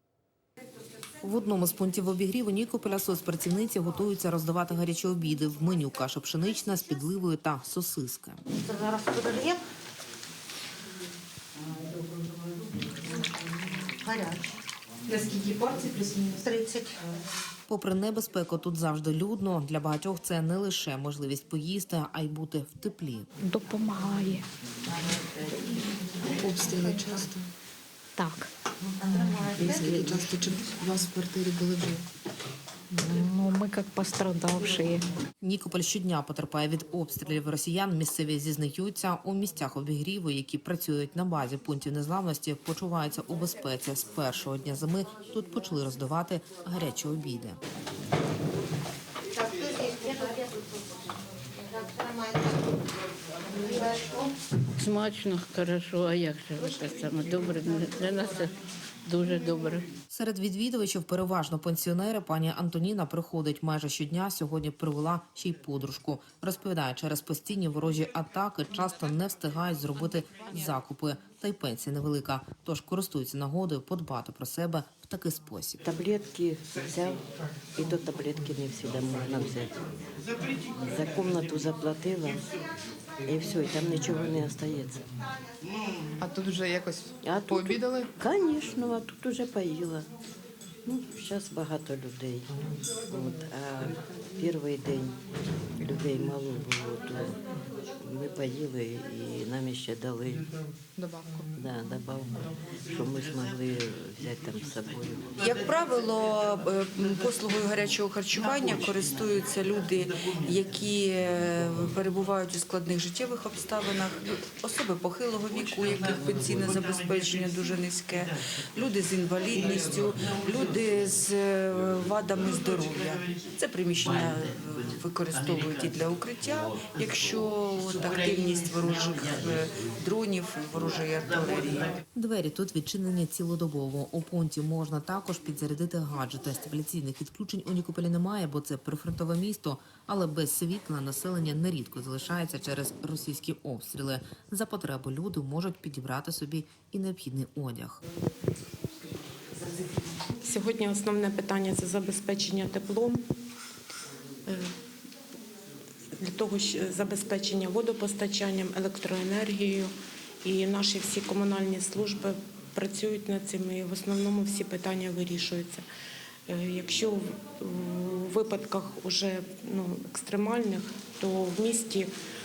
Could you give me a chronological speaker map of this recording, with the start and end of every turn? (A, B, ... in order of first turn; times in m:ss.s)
0:01.2-0:08.4 A
0:08.5-0:09.6 B
0:14.0-0:17.0 B
0:17.7-0:23.3 A
0:23.4-0:24.5 C
0:26.4-0:27.4 D
0:28.2-0:28.5 C
0:28.9-0:30.0 B
0:29.1-0:32.0 D
0:32.9-0:35.1 C
0:35.4-0:47.6 A
0:49.3-0:50.9 B
0:51.6-0:52.8 B
0:53.5-0:54.3 B
0:54.8-0:59.9 E
1:00.1-1:15.8 A
1:15.9-1:17.2 F
1:17.8-1:19.8 F
1:20.8-1:22.4 F
1:23.3-1:25.0 F
1:26.2-1:28.1 D
1:27.2-1:30.1 F
1:30.9-1:32.5 F
1:33.1-1:35.2 F
1:35.8-1:37.4 F
1:38.0-1:40.5 F
1:41.0-1:41.5 D
1:41.6-1:45.3 F
1:45.4-2:12.0 G
2:12.1-2:28.0 A
2:30.4-2:33.2 H
2:36.2-2:39.9 H
2:40.4-2:45.8 H
2:46.5-2:52.1 H